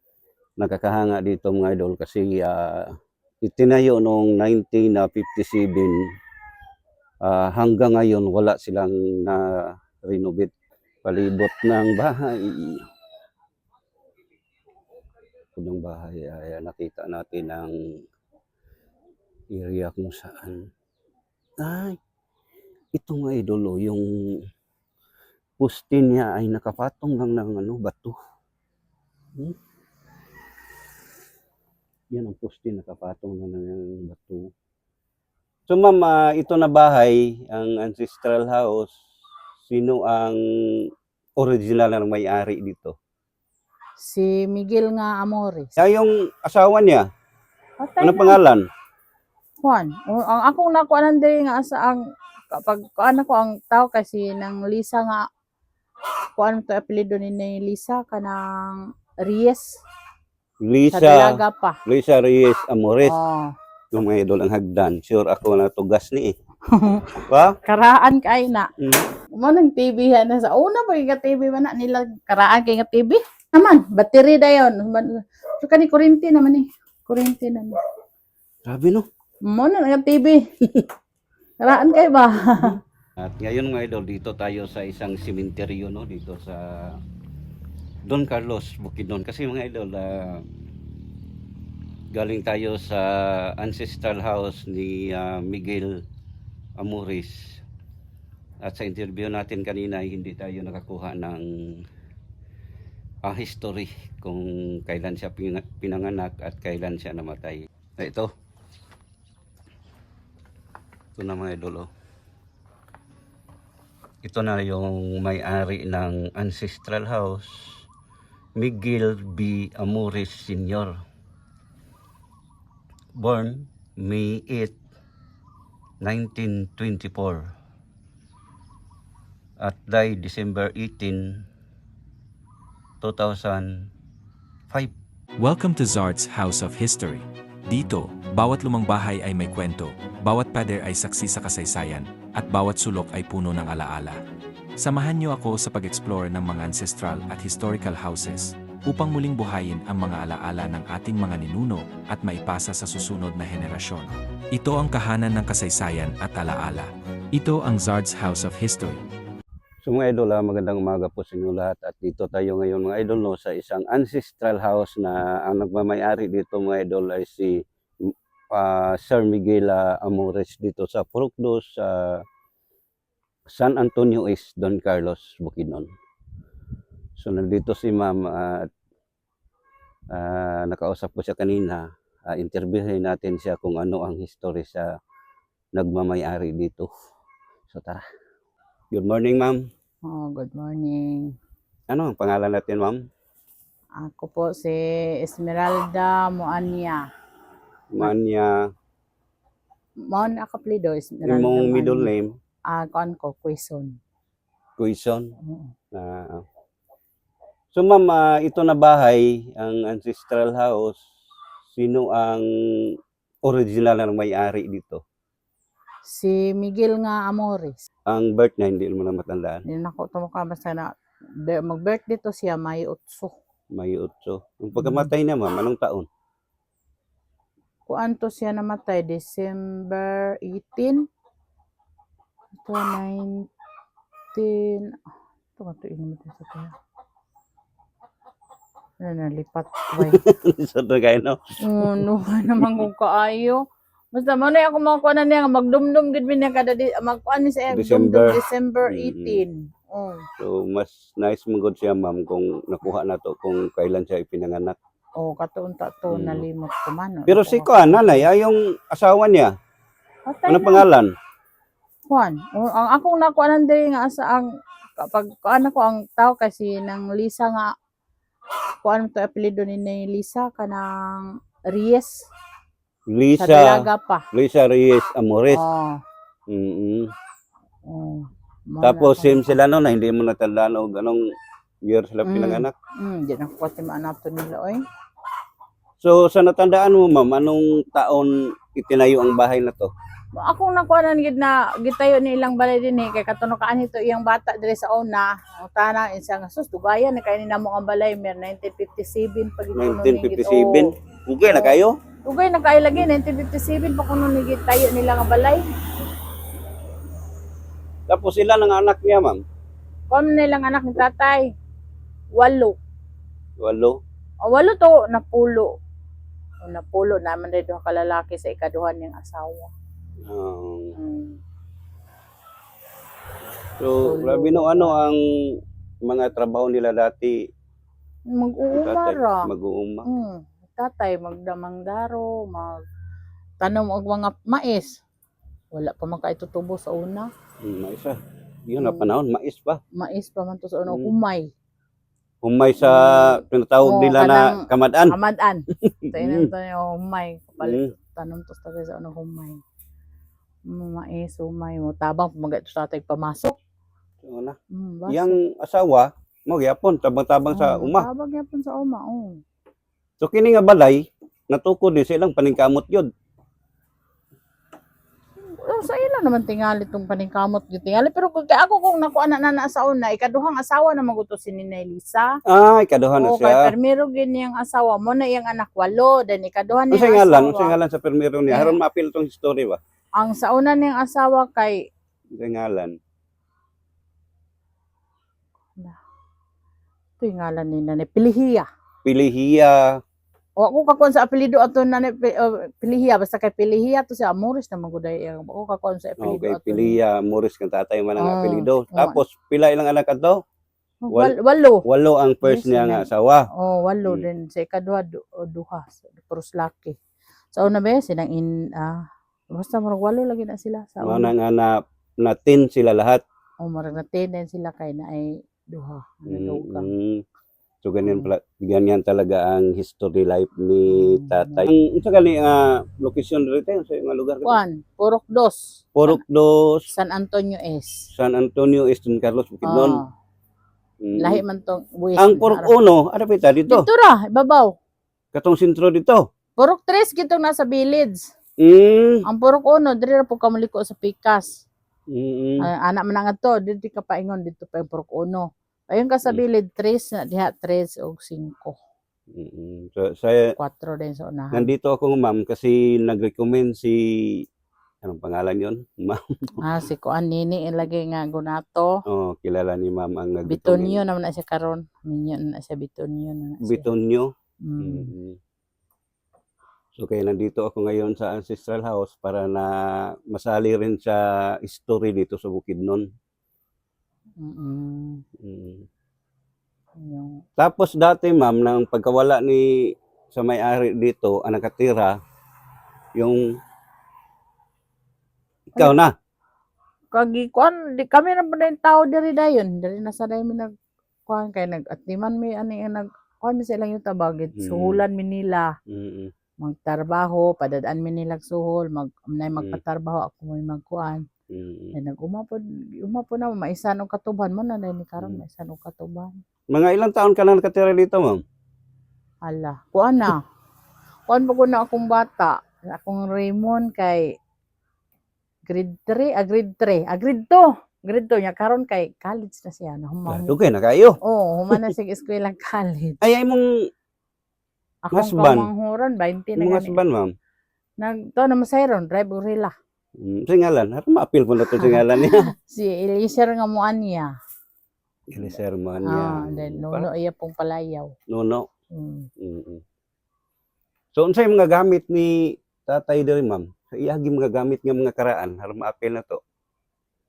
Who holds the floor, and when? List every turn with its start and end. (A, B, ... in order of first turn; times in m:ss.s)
0:00.6-0:06.0 A
0:07.2-0:10.5 A
0:11.0-0:12.9 A
0:15.6-0:17.7 A
0:19.5-0:20.7 A
0:21.6-0:22.0 A
0:22.9-0:24.4 A
0:25.6-0:28.2 A
0:32.1-0:34.5 A
0:35.7-0:38.9 A
0:39.7-0:42.9 A
0:44.0-0:45.7 B
0:45.8-0:47.0 A
0:47.8-0:48.4 B
0:48.0-0:48.6 A
0:49.6-0:55.2 B
0:56.4-0:59.8 B
1:00.6-1:03.1 A
1:00.9-1:01.8 B
1:03.0-1:03.6 B
1:03.9-1:06.3 A
1:06.7-1:08.7 B
1:07.3-1:07.6 A
1:08.8-1:09.0 A
1:09.4-1:17.8 B
1:18.6-1:19.1 A
1:19.5-1:20.4 B
1:21.6-1:22.8 B
1:23.2-1:27.0 A
1:28.0-1:30.4 A
1:32.1-1:36.0 A
1:36.8-1:37.6 A
1:38.6-1:41.8 A
1:43.2-1:48.3 A
1:51.2-1:51.9 A
1:54.2-1:57.8 A
1:58.6-2:01.0 A
2:03.2-2:04.8 A
2:06.0-2:07.5 A
2:09.6-2:11.4 A
2:13.0-2:13.9 A
2:15.4-2:24.2 C
2:24.8-2:39.0 C
2:39.8-2:52.2 A
2:53.5-2:55.9 A
2:57.2-2:58.7 A
3:00.1-3:04.9 A
3:05.7-3:06.9 A
3:07.7-3:08.0 A
3:08.9-3:09.6 A
3:10.0-3:11.3 B
3:11.9-3:13.0 A
3:14.0-3:17.0 B
3:17.9-3:18.6 A
3:20.1-3:22.1 B
3:21.2-3:22.3 A
3:22.7-3:24.0 B
3:24.8-3:25.3 A
3:25.4-3:25.7 B
3:25.9-3:26.4 A
3:27.7-3:31.0 A
3:31.7-3:35.0 A
3:36.1-3:37.8 B
3:38.1-3:39.6 A
3:39.7-3:40.9 B
3:41.5-3:43.3 B
3:43.7-3:46.1 A
3:44.8-3:45.1 B
3:47.9-3:51.0 B
3:52.5-3:53.4 B
3:54.3-3:55.0 B
3:55.6-3:56.7 B
3:59.0-4:00.2 B
4:00.0-4:02.0 A
4:01.6-4:03.6 B
4:04.1-4:10.2 B
4:07.7-4:09.4 A
4:10.4-4:14.8 A
4:15.2-4:18.3 B
4:16.1-4:16.4 A
4:17.3-4:19.5 A
4:20.3-4:20.8 B
4:20.5-4:21.1 A
4:22.1-4:27.7 B
4:28.8-4:32.2 B
4:33.1-4:35.6 A
4:33.4-4:34.2 B
4:35.5-4:36.0 B
4:36.5-4:37.1 A
4:37.8-4:39.6 B
4:38.8-4:41.2 A
4:41.8-4:42.7 A
4:42.2-4:44.8 B
4:46.0-4:49.9 A
4:50.3-5:00.9 B
4:59.7-5:01.9 A
5:01.4-5:05.6 B
5:08.1-5:09.4 A
5:10.1-5:11.5 B
5:12.3-5:12.8 B
5:13.6-5:14.0 A
5:14.4-5:15.7 B
5:16.6-5:19.7 B
5:20.3-5:21.0 A
5:21.0-5:21.4 B
5:23.8-5:27.4 A
5:24.0-5:24.9 B
5:28.3-5:29.5 B
5:28.7-5:30.1 A
5:30.0-5:32.8 B
5:33.6-5:35.0 B
5:35.7-5:37.3 B
5:37.6-5:39.8 A
5:38.8-5:39.1 B
5:39.9-5:41.5 B
5:42.4-5:45.1 A
5:42.8-5:49.6 B
5:45.7-5:46.5 A
5:47.6-5:47.9 A
5:50.7-5:53.6 B
5:54.2-5:54.6 A
5:54.7-5:55.4 B
5:55.1-5:58.1 A
5:57.5-5:59.4 B
6:00.2-6:03.1 A
6:05.4-6:12.3 B
6:12.4-6:13.7 A
6:13.2-6:17.7 B
6:16.9-6:19.8 A
6:18.5-6:18.8 B
6:20.2-6:21.8 B
6:22.4-6:23.0 A
6:27.2-6:28.7 B
6:29.0-6:30.0 A
6:30.6-6:37.0 B
6:36.2-6:40.4 A
6:38.2-6:39.2 B
6:41.0-6:41.8 B
6:41.1-6:43.5 A
6:42.4-6:47.0 B
6:47.5-6:51.3 B
6:51.0-6:53.2 A
6:53.6-6:56.9 B
6:56.3-6:57.2 A
6:57.8-7:04.5 A
6:58.0-6:58.3 B
7:00.9-7:01.7 B
7:04.4-7:06.2 B
7:05.9-7:06.9 A
7:06.9-7:08.0 B
7:08.1-7:10.0 A
7:09.6-7:10.1 B
7:11.0-7:11.4 A
7:11.2-7:12.7 B
7:12.2-7:13.8 A
7:13.7-7:14.7 B
7:15.3-7:16.2 A
7:16.6-7:18.3 B
7:18.6-7:19.2 A
7:19.2-7:21.5 B
7:22.1-7:22.7 A
7:22.6-7:28.8 B
7:29.3-7:30.6 A
7:30.6-7:31.7 B
7:31.5-7:34.4 A
7:35.0-7:36.6 A
7:36.6-7:38.9 B
7:39.1-7:41.0 A
7:40.5-7:43.9 B
7:43.6-7:45.4 A
7:44.6-7:45.1 B
7:46.9-7:53.1 A
7:54.4-7:55.2 B
7:55.4-7:55.9 A
7:57.0-7:57.4 B
7:57.6-8:02.2 A
8:03.2-8:03.6 A
8:05.7-8:06.1 A
8:07.1-8:10.7 B
8:11.3-8:15.7 B
8:14.5-8:15.0 A
8:15.9-8:16.3 A
8:16.6-8:21.2 B
8:21.5-8:21.9 A
8:21.9-8:26.4 B
8:26.7-8:28.4 A
8:29.4-8:30.4 B
8:31.3-8:34.3 B
8:35.7-8:40.5 B
8:40.3-8:41.2 A
8:41.2-8:43.2 B
8:43.2-8:43.9 A
8:45.1-8:47.0 B
8:45.1-8:45.7 A
8:46.6-8:47.3 A
8:48.0-8:49.7 B
8:50.2-8:52.5 A
8:51.6-8:54.3 B
8:55.3-8:57.1 A
8:56.0-8:58.1 B
8:58.3-8:58.6 A
8:58.9-8:59.3 B
8:59.4-8:59.8 A
9:01.1-9:06.4 A